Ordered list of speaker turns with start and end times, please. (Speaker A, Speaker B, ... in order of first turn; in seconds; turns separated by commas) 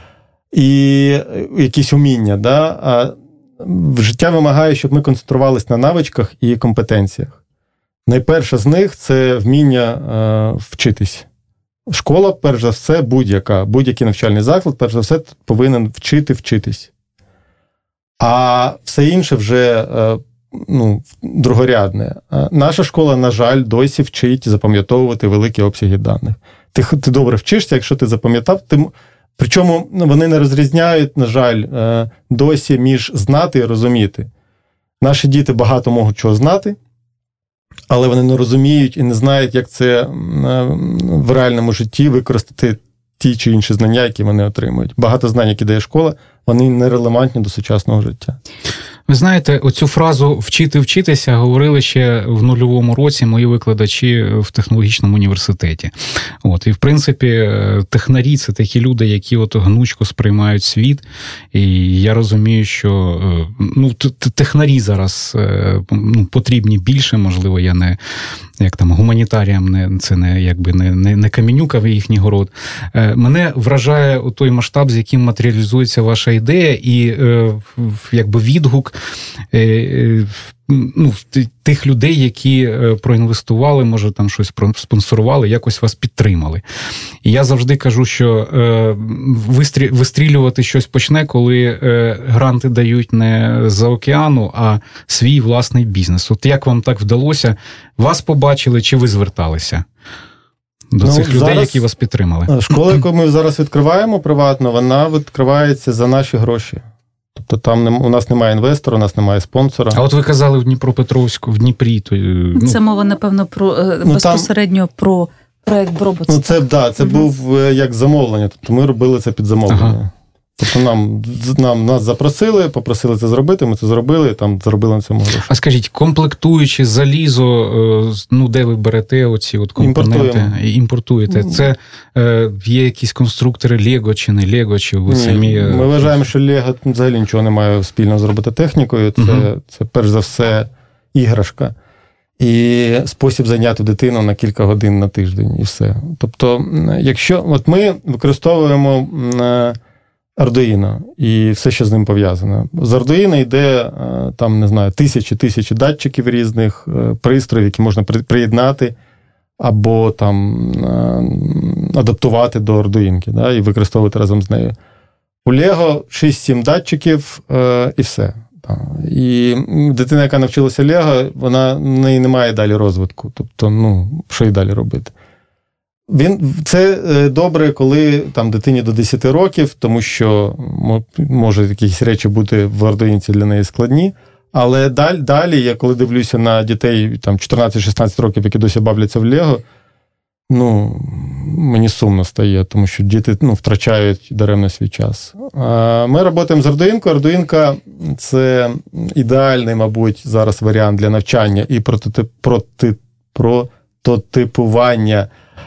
Speaker A: 0.5-7.4, Speaker A: 8.1-11.2, Speaker A: 11.9-16.9, Speaker A: 18.2-34.3, Speaker A: 35.0-36.8, Speaker A: 37.9-48.4, Speaker B: 49.1-68.0, Speaker B: 68.6-78.9, Speaker B: 79.5-86.6, Speaker B: 87.2-99.8, Speaker B: 100.9-102.5, Speaker A: 101.0-101.8, Speaker A: 102.5-106.8, Speaker A: 107.3-110.0, Speaker B: 109.9-112.8, Speaker C: 112.5-116.6, Speaker A: 114.0-114.5, Speaker A: 116.3-125.5, Speaker B: 119.7-120.0, Speaker B: 125.5-136.2, Speaker A: 129.8-130.5, Speaker A: 135.1-141.7, Speaker B: 139.2-139.5, Speaker A: 142.4-149.8, Speaker A: 150.4-158.9, Speaker A: 159.6-164.7, Speaker A: 165.4-175.1, Speaker A: 176.1-189.6, Speaker A: 190.5-205.3